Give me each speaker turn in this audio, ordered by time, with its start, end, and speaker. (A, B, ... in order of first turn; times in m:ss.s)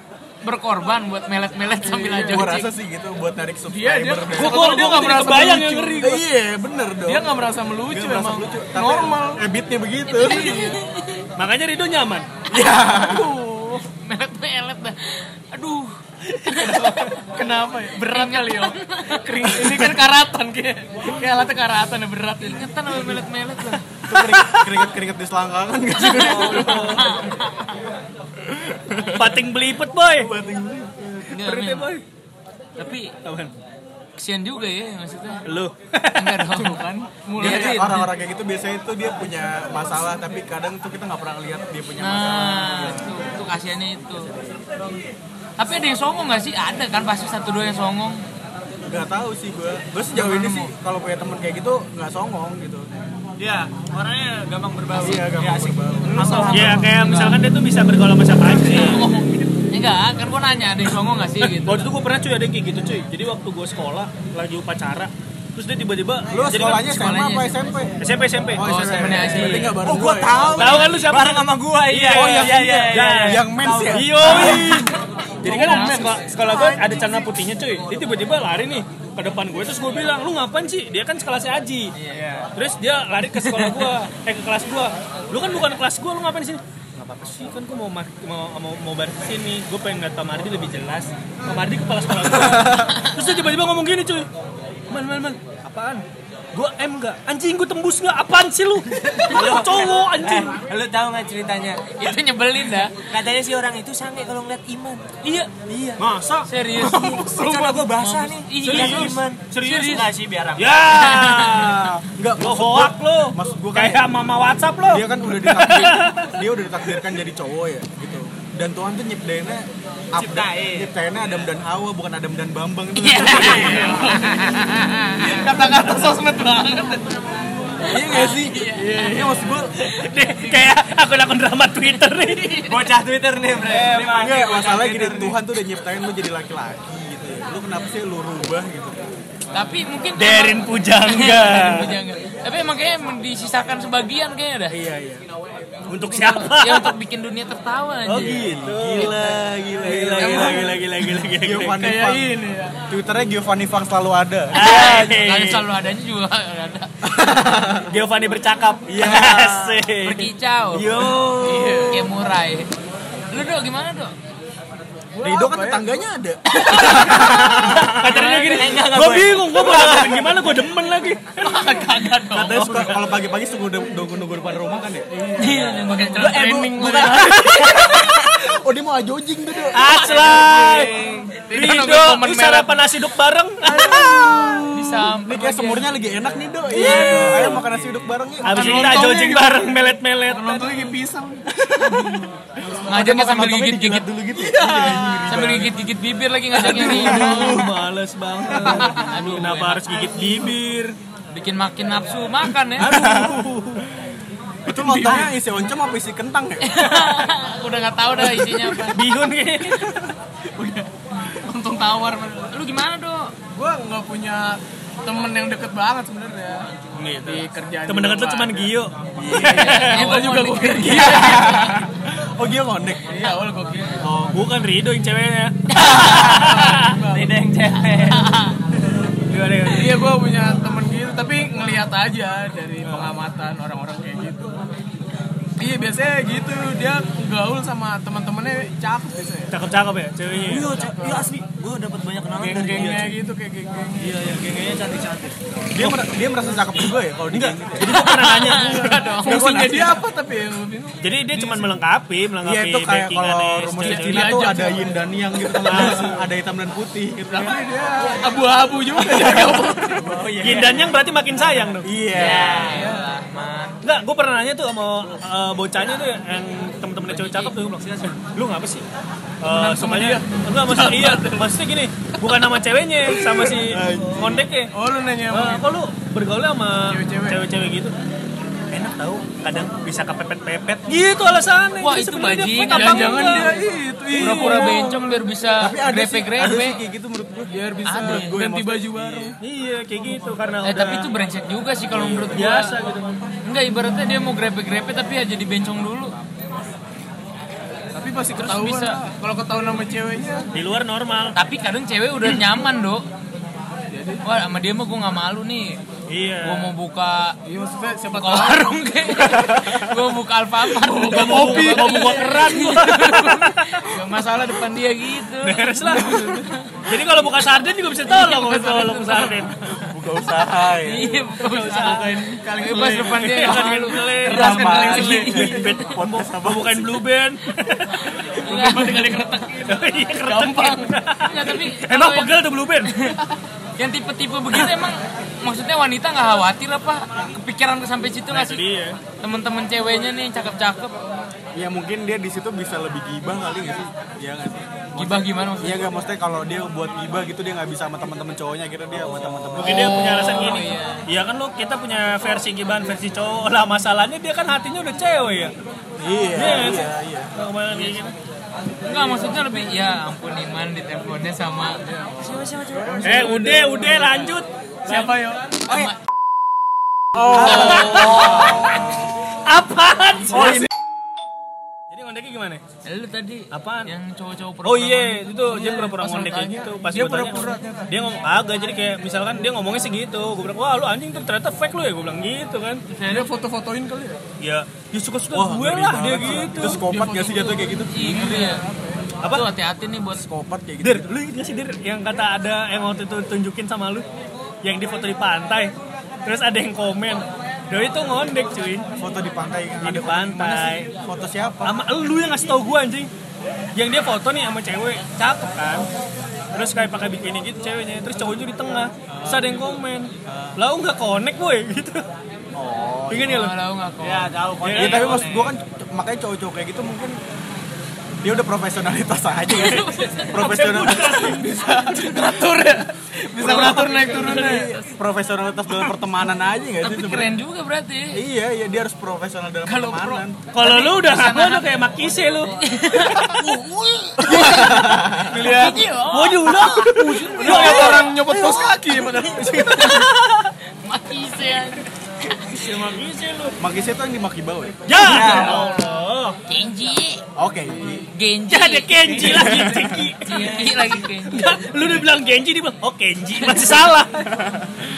0:00.4-0:02.7 A
0:01.8-0:02.5 B
0:02.3-0:04.9 C
0:03.7-0:06.0 B
0:04.3-0:06.2 D
0:06.0-0:07.3 C
0:07.0-0:09.4 B
0:07.9-0:10.5 C
0:10.1-0:11.2 A
0:10.2-0:10.8 B
0:11.4-0:12.3 D
0:12.5-0:13.3 C
0:12.9-0:13.9 B
0:14.0-0:17.0 A
0:16.5-0:17.1 D
0:17.2-0:23.2 B
0:18.0-0:19.2 A
0:22.4-0:23.8 A
0:24.1-0:27.2 C
0:24.1-0:24.8 D
0:26.0-0:27.6 A
0:26.4-0:27.1 D
0:28.4-0:29.4 C
0:29.1-0:30.3 D
0:30.2-0:31.3 C
0:31.3-0:31.9 A
0:31.4-0:32.0 D
0:32.8-0:33.1 A
0:33.2-0:33.5 D
0:34.2-0:35.4 A
0:35.4-0:36.7 D
0:36.1-0:38.1 A
0:36.6-0:38.0 B
0:37.4-0:43.2 C
0:42.0-0:44.3 A
0:45.6-0:48.2 A
0:48.8-0:52.9 C
0:50.1-0:50.7 A
0:53.4-0:56.9 E
0:54.9-0:56.4 C
0:56.0-0:56.8 B
0:56.5-0:59.1 D
0:56.9-0:57.4 A
0:58.7-1:01.8 A
1:01.4-1:06.8 D
1:06.3-1:07.9 C
1:06.8-1:07.7 A
1:08.0-1:08.6 D
1:08.5-1:10.9 C
1:08.6-1:09.8 A
1:09.4-1:14.9 E
1:10.5-1:21.9 D
1:12.1-1:14.9 C
1:15.4-1:16.2 B
1:15.5-1:16.0 C
1:15.7-1:17.3 E
1:22.0-1:22.5 E
1:22.5-1:34.3 D
1:34.9-1:40.6 D
1:39.2-1:41.9 E
1:42.0-1:43.0 A
1:43.0-1:45.0 E
1:45.2-1:46.5 D
1:45.6-1:46.0 E
1:46.4-1:47.3 A
1:46.7-1:48.1 B
1:47.2-1:51.0 E
1:48.0-1:50.1 A
1:48.6-1:56.3 D
1:51.0-1:51.6 A
1:51.5-1:54.0 C
1:54.9-2:03.9 C
2:00.1-2:01.4 E
2:03.0-2:05.4 A
2:03.2-2:07.7 B
2:07.8-2:09.7 C
2:07.9-2:09.1 A
2:08.8-2:09.4 B
2:09.8-2:12.6 D
2:12.2-2:12.9 A
2:12.7-2:15.3 E
2:13.6-2:14.4 D
2:14.1-2:19.2 C
2:19.5-2:24.8 A
2:20.2-2:22.0 D
2:24.7-2:25.2 C
2:25.9-2:26.9 D
2:26.0-2:28.6 A
2:28.1-2:31.8 D
2:28.1-2:30.8 C
2:30.2-2:30.8 B
2:31.4-2:32.4 C
2:31.7-2:32.8 B
2:32.9-2:35.1 C
2:34.5-2:35.7 D
2:34.5-2:36.9 A
2:37.0-2:37.9 C
2:37.9-2:40.3 D
2:38.9-2:39.8 C
2:40.0-2:40.9 A
2:40.7-2:41.9 C
2:40.8-2:41.3 D
2:41.4-2:42.1 B
2:41.9-2:42.7 A
2:43.3-2:44.1 A
2:45.2-2:45.9 B
2:45.2-2:48.0 C
2:46.6-2:47.1 A
2:46.8-2:51.5 D
2:48.0-2:50.1 E
2:51.4-2:52.6 B
2:52.2-2:53.1 D
2:52.3-2:55.1 C
2:55.1-2:58.0 B
2:55.3-2:56.6 A
2:56.2-3:00.5 C
2:57.0-2:57.6 D
2:59.7-3:01.0 D
3:00.4-3:02.7 B
3:01.5-3:04.6 D
3:03.7-3:09.2 C
3:03.9-3:04.6 B
3:04.7-3:06.4 A
3:06.7-3:10.8 D
3:06.7-3:07.6 B
3:08.4-3:09.7 B
3:10.3-3:13.0 B
3:11.8-3:15.7 C
3:12.9-3:14.1 A
3:14.4-3:15.4 B
3:15.2-3:17.6 A
3:16.6-3:17.7 C
3:16.6-3:20.9 D
3:18.7-3:19.0 B
3:18.7-3:20.0 A
3:21.3-3:23.0 A
3:22.8-3:23.8 D
3:22.8-3:23.5 C
3:24.6-3:26.9 C
3:24.7-3:25.4 B
3:26.6-3:29.0 A
3:28.8-3:30.1 D
3:30.6-3:32.5 B
3:32.5-3:33.3 A
3:33.5-3:38.7 B
3:36.9-3:40.1 D
3:39.2-3:39.7 C
3:39.3-3:41.8 A
3:39.7-3:41.6 B
3:40.9-3:43.2 C
3:43.1-3:44.1 B
3:44.0-3:44.4 C
3:44.3-3:46.9 D
3:45.7-3:46.2 A
3:45.8-3:47.4 B
3:47.1-3:48.3 E
3:48.2-3:48.5 A
3:49.3-3:50.0 D
3:49.7-3:54.6 B
3:55.6-3:59.6 B
3:59.5-4:00.7 D
4:00.4-4:03.2 E
4:00.6-4:01.3 B
4:02.3-4:04.1 B
4:04.0-4:05.3 E
4:05.7-4:08.1 C
4:05.8-4:06.0 D
4:07.3-4:09.0 D
4:07.9-4:09.5 A
4:08.2-4:11.7 B
4:09.2-4:10.0 C
4:11.0-4:14.7 D
4:12.4-4:17.6 C
4:13.8-4:15.0 B
4:15.5-4:16.2 B
4:15.6-4:16.2 D
4:17.3-4:20.1 B
4:20.0-4:20.9 E
4:20.0-4:20.6 C
4:20.4-4:21.9 D
4:21.8-4:22.7 C
4:22.1-4:23.0 E
4:22.1-4:23.8 A
4:22.7-4:23.1 B
4:23.8-4:28.8 D
4:27.1-4:27.5 A
4:29.4-4:34.7 D
4:29.4-4:31.6 B
4:33.6-4:34.4 C
4:34.7-4:35.6 B
4:35.3-4:37.9 D
4:36.9-4:37.4 B
4:38.7-4:43.6 D
4:41.8-4:43.6 A
4:42.7-4:45.0 B
4:44.1-4:46.8 A
4:44.2-4:45.0 C
4:44.2-4:44.4 D
4:45.6-4:49.3 C
4:47.5-4:49.4 B
4:47.8-4:48.3 A
4:49.4-4:51.1 D
4:50.6-4:52.7 A
4:51.9-4:52.4 C
4:52.3-4:53.2 D
4:53.4-4:56.1 A
4:57.9-5:00.5 B
4:58.3-4:59.0 A
5:00.5-5:01.3 D
5:01.3-5:03.0 A
5:03.9-5:04.2 B
5:04.2-5:05.8 A
5:06.1-5:06.7 D
5:06.4-5:07.4 A
5:07.4-5:08.7 B
5:08.1-5:16.8 A
5:09.2-5:09.9 C
5:10.7-5:12.3 B
5:11.1-5:13.8 D
5:15.4-5:19.5 D
5:18.1-5:19.5 A
5:19.6-5:21.2 C
5:20.7-5:25.8 A
5:21.4-5:22.2 D
5:21.5-5:25.5 B
5:22.7-5:32.9 D
5:24.2-5:26.9 C
5:28.0-5:29.6 A
5:28.4-5:31.0 B
5:31.2-5:32.3 A
5:32.9-5:33.2 A
5:33.8-5:38.6 A
5:38.3-5:39.0 D
5:39.2-5:41.0 A
5:41.5-5:50.0 C
5:44.9-5:45.9 A
5:49.5-5:55.5 D
5:49.6-5:51.0 A
5:56.0-5:57.3 C
5:56.3-5:58.1 D
5:58.8-6:01.8 A
6:01.9-6:03.3 C
6:02.1-6:04.1 E
6:03.0-6:05.2 D
6:04.8-6:05.6 B
6:05.7-6:05.9 A
6:07.1-6:08.7 C
6:07.3-6:08.6 E
6:07.5-6:10.7 D
6:07.6-6:08.2 A
6:10.3-6:10.7 C
6:10.4-6:10.7 B
6:11.9-6:12.6 D
6:12.8-6:15.2 A
6:13.5-6:13.9 D
6:14.6-6:22.8 D
6:15.5-6:16.7 B
6:16.9-6:17.8 C
6:22.9-6:23.3 A
6:23.0-6:24.2 B
6:24.4-6:26.8 D
6:25.3-6:28.4 C
6:26.8-6:29.1 B
6:27.9-6:28.6 A
6:29.3-6:30.2 A
6:30.1-6:31.0 C
6:30.8-6:34.0 D
6:34.6-6:35.7 D
6:36.2-6:38.8 D
6:39.0-6:41.8 C
6:39.8-6:40.9 D
6:41.6-6:43.1 D
6:43.7-6:45.9 D
6:46.5-6:52.0 D
6:49.1-6:49.6 C
6:50.3-6:50.5 C
6:52.5-6:53.3 C
6:53.1-6:53.6 D
6:53.2-6:54.4 A
6:54.0-6:55.5 E
6:54.6-6:55.3 D
6:54.7-6:57.2 C
6:58.2-7:01.4 C
6:59.5-7:00.4 A
7:00.3-7:02.4 D
7:01.2-7:04.8 B
7:03.4-7:03.8 D
7:03.5-7:04.8 A
7:04.2-7:07.4 C
7:06.8-7:08.2 A
7:08.1-7:10.4 C
7:09.6-7:11.7 A
7:10.5-7:13.4 D
7:12.6-7:18.7 A
7:13.4-7:20.1 B
7:14.2-7:15.5 C
7:15.6-7:18.1 D
7:19.4-7:20.5 D
7:20.8-7:22.8 A
7:22.5-7:23.6 D
7:23.6-7:25.7 C
7:24.9-7:26.4 D
7:25.2-7:25.8 B
7:26.5-7:27.2 A
7:27.4-7:28.1 C
7:28.1-7:29.7 A
7:28.5-7:34.3 D
7:29.2-7:30.1 C
7:30.2-7:31.8 A
7:34.3-7:34.8 C